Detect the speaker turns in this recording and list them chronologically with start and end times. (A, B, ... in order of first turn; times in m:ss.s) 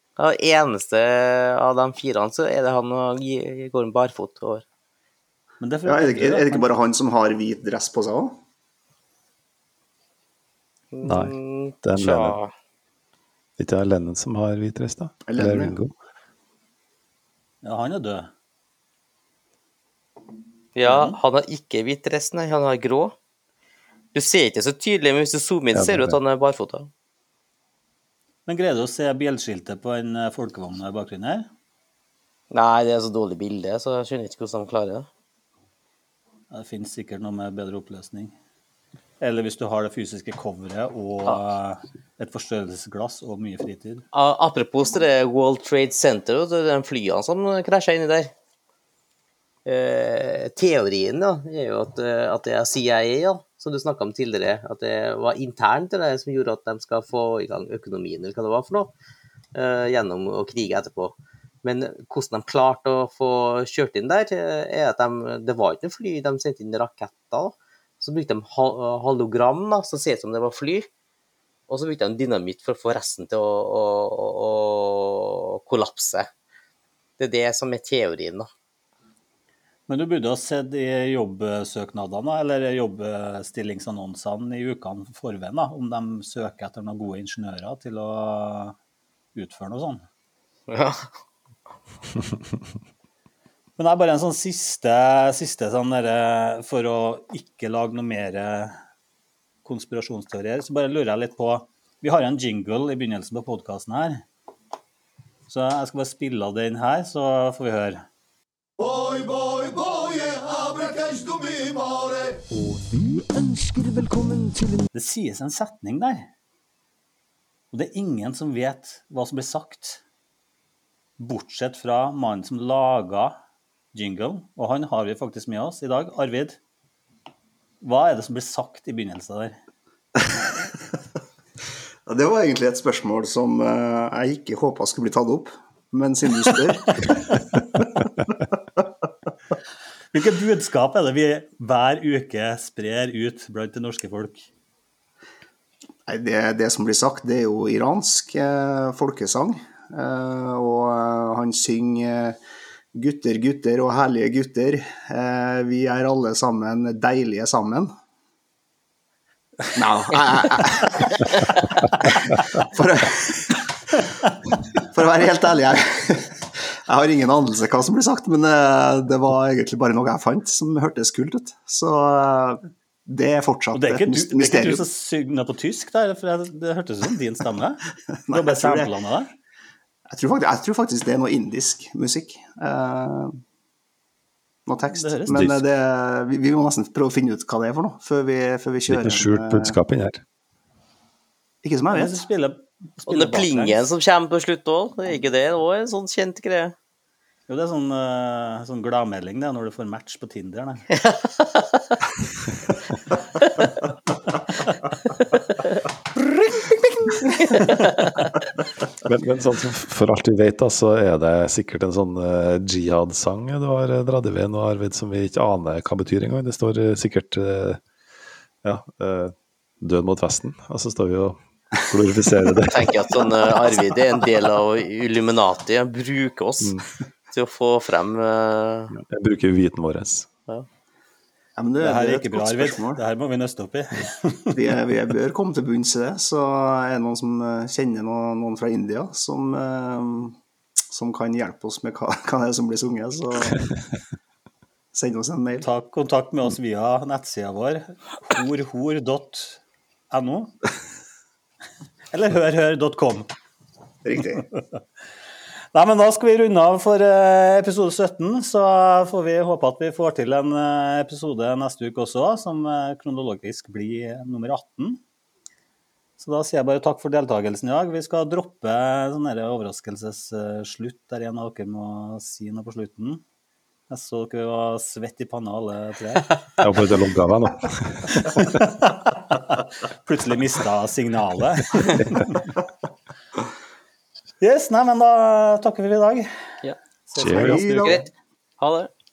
0:00.2-0:04.6 A
0:05.6-0:06.8 B
0:05.9-0:08.4 C
0:10.9-0:12.5 A
0:11.0-0:12.4 D
0:13.6-0:15.9 D
0:15.3-0:15.8 C
0:17.6-0:18.3 B
0:20.8-0:23.1 A
0:20.8-0:21.2 B
0:24.1-0:26.9 A
0:25.7-0:26.2 D
0:28.4-0:31.4 B
0:32.5-0:35.1 A
0:36.5-0:38.3 B
0:39.2-0:44.0 B
0:44.1-0:48.3 A
0:49.6-0:58.9 A
0:59.6-1:10.9 A
1:11.7-1:16.3 A
1:17.2-1:18.5 A
1:19.9-1:28.7 B
1:29.3-1:30.0 B
1:30.7-1:31.1 A
1:33.8-1:38.8 B
1:39.6-1:44.2 B
1:45.5-1:48.0 B
1:48.8-1:54.8 E
1:52.6-1:54.8 F
1:54.9-1:56.3 B
1:57.7-2:00.0 B
2:01.2-2:03.3 B
2:03.9-2:06.6 B
2:07.8-2:09.6 B
2:10.2-2:10.5 C
2:12.0-2:17.4 C
2:18.3-2:18.8 C
2:20.1-2:24.5 B
2:26.1-2:32.4 C
2:32.9-2:37.9 C
2:39.7-2:44.0 C
2:44.8-2:54.9 C
2:53.7-2:59.3 B
2:58.3-2:58.9 C
3:00.1-3:03.3 C
3:04.6-3:09.8 C
3:04.9-3:05.6 B
3:08.9-3:10.2 D
3:11.6-3:12.2 C
3:11.9-3:13.8 B
3:13.1-3:16.7 A
3:17.5-3:20.9 B
3:21.0-3:21.6 A
3:27.5-3:27.9 A
3:29.0-3:37.8 D
3:38.6-3:43.1 D
3:42.7-3:49.0 A
3:48.9-3:50.3 D
3:51.6-3:53.0 C
3:51.8-3:54.6 B
3:54.5-4:00.4 C
4:00.9-4:03.6 C
4:04.9-4:05.7 C
4:05.6-4:09.6 B
4:10.1-4:10.6 B
4:12.1-4:13.3 B
4:14.0-4:14.5 C
4:15.7-4:25.0 B
4:26.2-4:33.2 B
4:33.9-4:36.7 B
4:36.6-4:38.6 D
4:38.1-4:42.5 B
4:44.4-4:46.3 B
4:46.6-4:48.1 A
4:47.1-4:48.0 B
4:47.2-4:47.6 D
4:47.2-4:48.0 C
4:48.6-4:48.9 A